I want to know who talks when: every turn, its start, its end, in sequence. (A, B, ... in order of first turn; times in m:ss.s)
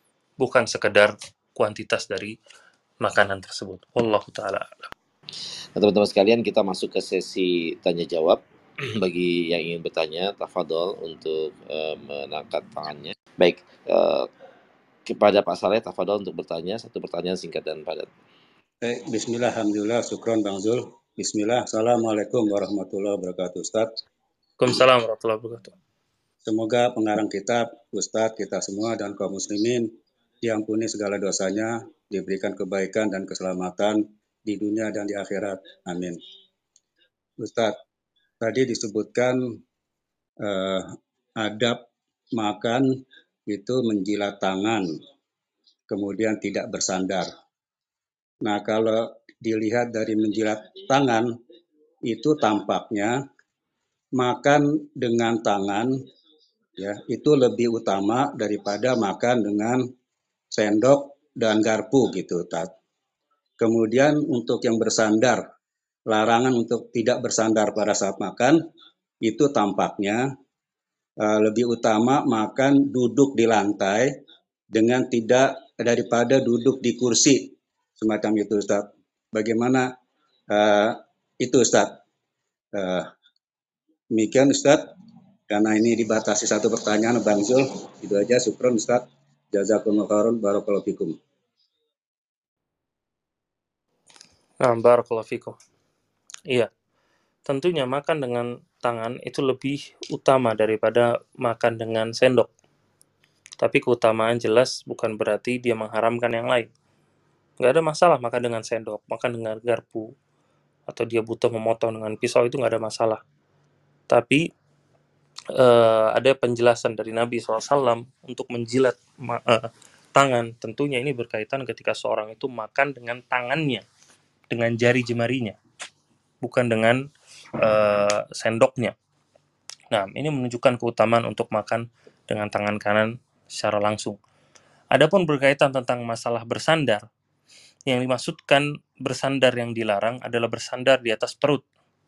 0:00.4-0:02.4 A
0:03.0-0:04.9 A
0:05.8-0:14.3 B
0:15.1-0:18.1 B
0:18.8-0:23.9 C
0:24.6-0:25.7 A
0:26.4-0:29.9 C
0:30.4-0:36.2 C
0:37.4-0:37.7 C
0:38.4-0:39.4 C
0:40.4-0:41.8 C
0:42.4-0:42.9 C
0:43.5-0:44.9 C
0:45.9-0:47.3 C
0:48.4-0:51.3 C
0:52.1-0:53.2 C
0:54.2-0:55.9 C
0:56.8-0:59.9 C
1:00.5-1:02.7 C
1:03.6-1:05.4 C
1:06.1-1:08.6 C
1:09.2-1:10.3 C
1:11.2-1:14.1 C
1:14.7-1:19.9 C
1:20.5-1:22.0 C
1:22.7-1:23.1 C
1:24.1-1:24.8 C
1:25.5-1:31.2 C
1:34.6-1:35.6 A
1:37.5-1:42.5 A
1:43.6-1:46.7 A
1:47.6-1:50.1 A
1:50.9-1:53.2 A
1:54.1-1:54.4 A
1:55.6-2:03.8 A
2:04.5-2:05.6 A
2:06.4-2:07.0 A
2:07.6-2:09.0 A
2:09.9-2:14.2 A
2:14.9-2:17.0 A
2:17.9-2:21.6 A